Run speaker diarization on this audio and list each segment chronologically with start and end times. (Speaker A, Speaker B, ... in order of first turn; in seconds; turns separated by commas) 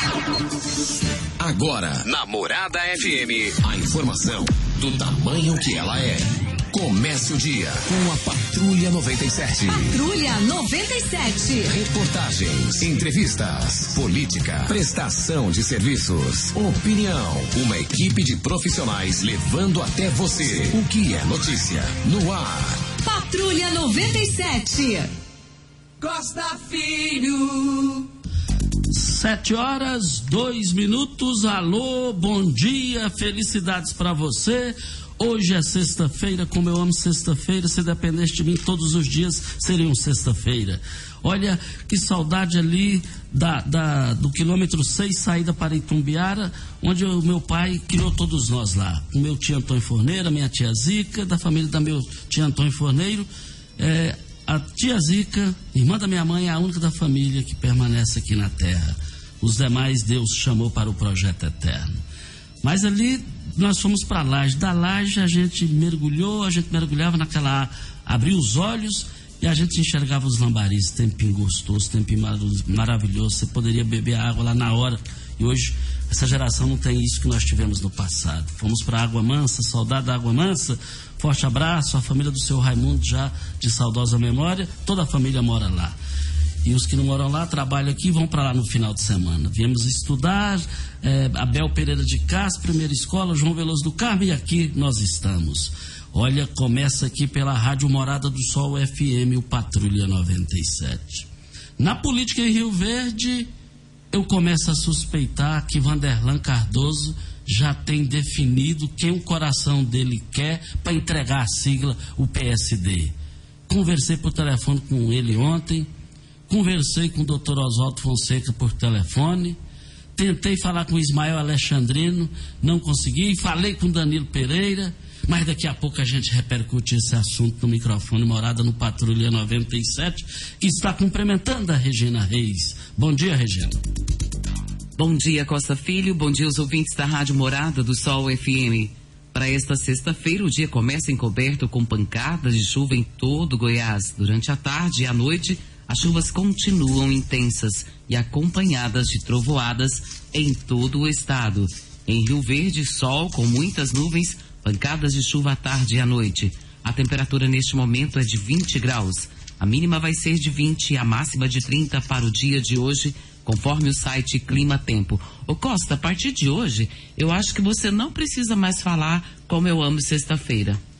Speaker A: 1.4-10.0, Speaker B: 9.7-11.8, Speaker A: 11.7-22.9, Speaker B: 23.0-25.1, Speaker C: 26.0-28.1, Speaker D: 28.9-62.0, Speaker D: 62.6-86.0, Speaker D: 86.6-103.5, Speaker D: 104.1-113.1, Speaker D: 113.7-115.9, Speaker D: 116.5-119.6, Speaker D: 120.1-133.8, Speaker E: 135.0-170.8